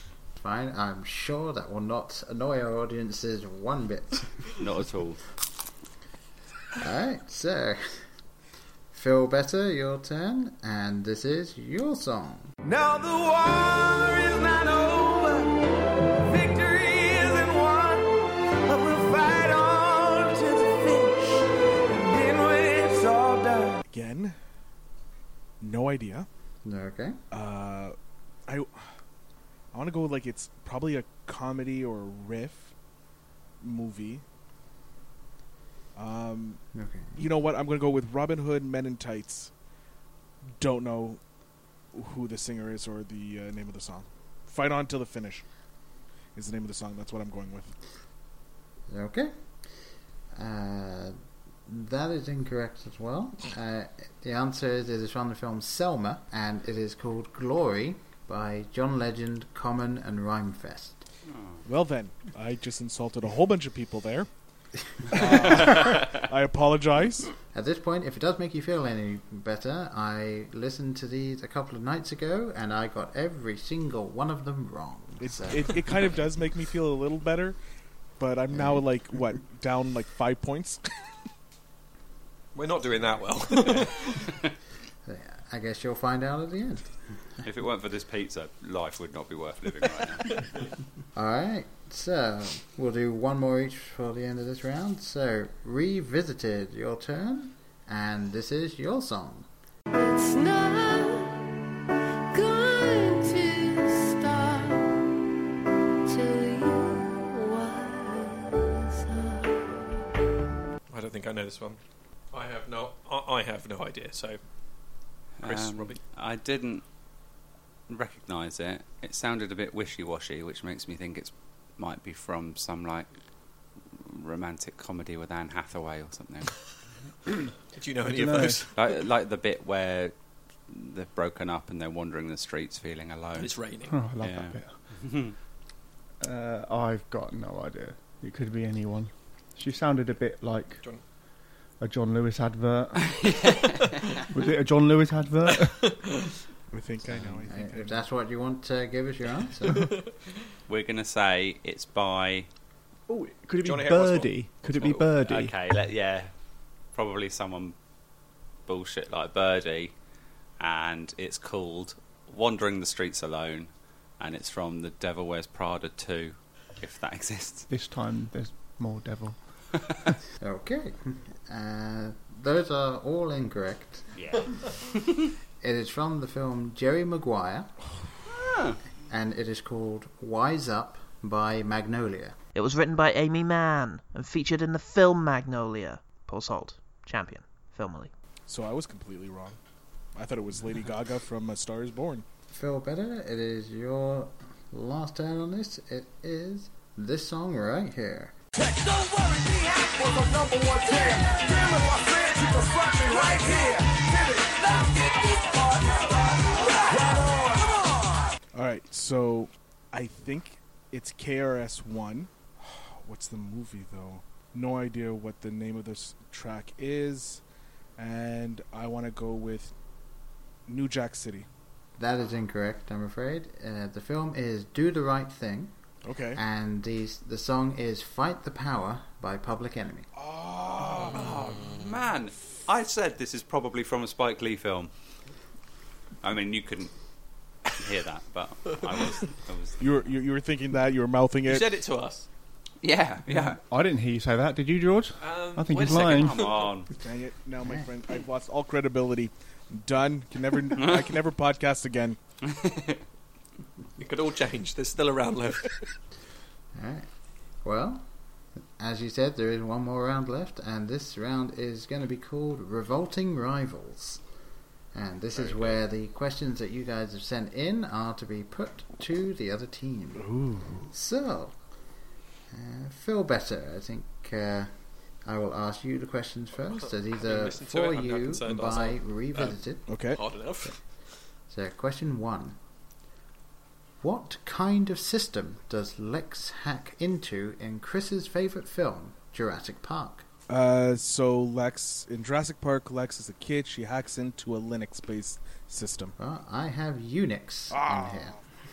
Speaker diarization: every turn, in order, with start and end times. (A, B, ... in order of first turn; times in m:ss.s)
0:00.4-0:04.4 A
0:04.6-0:05.2 B
0:06.8-0:08.0 A
0:08.9-0:12.5 A
0:12.8-0:15.5 C
0:16.3-0:18.0 C
0:18.7-0:21.5 C
0:22.0-0:23.8 C
0:23.9-0:24.4 D
0:25.6-0:26.3 D
0:26.6-0:27.2 A
0:27.3-0:28.0 D
0:28.5-0:28.8 D
0:29.7-0:32.7 D
0:33.6-0:34.2 D
0:36.0-0:36.6 D
0:36.7-0:37.2 A
0:37.2-0:39.5 D
0:40.6-0:41.2 D
0:41.9-0:45.4 D
0:46.4-0:47.7 D
0:48.9-0:49.3 A
0:50.3-1:01.0 A
1:01.3-1:01.6 B
1:01.6-1:04.3 D
1:05.1-1:07.4 D
1:07.5-1:15.8 A
1:15.2-1:17.6 D
1:18.2-1:20.8 D
1:22.5-1:24.3 E
1:25.1-1:26.9 A
1:27.4-1:30.4 B
1:31.2-1:39.5 A
1:39.9-1:41.5 F
1:42.3-1:45.0 F
1:46.1-1:49.9 F
1:50.9-1:51.8 E
1:52.3-1:54.4 E
1:55.4-1:56.8 B
1:55.4-1:56.0 E
1:57.9-2:03.1 B
2:03.9-2:06.6 B
2:07.7-2:09.0 E
2:08.1-2:08.6 G
2:08.8-2:10.1 B
2:10.7-2:13.6 B
2:13.4-2:14.0 E
2:13.9-2:14.7 G
2:14.2-2:15.4 B
2:16.2-2:20.9 G
2:21.8-2:23.2 G
2:23.0-2:24.0 B
2:24.3-2:26.0 G
2:25.6-2:26.2 E
2:26.7-2:28.0 D
2:27.5-2:29.9 A
2:29.7-2:30.2 E
2:30.7-2:32.5 B
2:33.1-2:35.6 G
2:33.6-2:35.1 E
2:35.2-2:36.3 B
2:36.9-2:37.8 B
2:38.7-2:39.9 B
2:40.6-2:47.7 B
2:47.7-2:49.4 G
2:50.4-2:54.1 A
2:54.2-2:55.1 B
2:55.6-2:57.7 A
2:58.3-2:58.8 B
2:59.1-3:02.4 A
3:02.6-3:08.1 H
3:08.5-3:09.6 D
3:10.2-3:12.2 D
3:12.5-3:18.4 A
3:28.5-3:37.4 D
3:38.0-3:39.7 D
3:40.7-3:41.5 D
3:42.0-3:45.7 A
3:46.0-3:46.4 D
3:46.4-3:50.1 A
3:50.2-3:51.3 D
3:50.9-3:54.9 B
3:56.2-3:56.9 B
3:57.6-4:00.1 B
3:59.8-4:01.7 D
4:01.5-4:02.3 E
4:02.8-4:03.6 B
4:03.3-4:06.5 G
4:05.2-4:06.7 E
4:05.8-4:06.9 B
4:07.0-4:12.2 D
4:07.6-4:07.9 A
4:10.8-4:11.1 B
4:12.4-4:13.0 B
4:14.0-4:15.9 E
4:16.8-4:17.1 A
4:17.6-4:18.1 A
4:18.8-4:24.2 A
4:24.9-4:30.3 A
4:25.4-4:25.7 E
4:30.2-4:30.9 D
4:30.9-4:31.6 A
4:32.5-4:34.7 A
4:35.2-4:39.9 A
4:36.7-4:40.8 E
4:39.9-4:40.2 D
4:41.5-4:42.6 A
4:44.0-4:50.2 A
4:50.5-4:56.2 D
4:56.2-4:58.4 A
4:57.8-4:58.2 D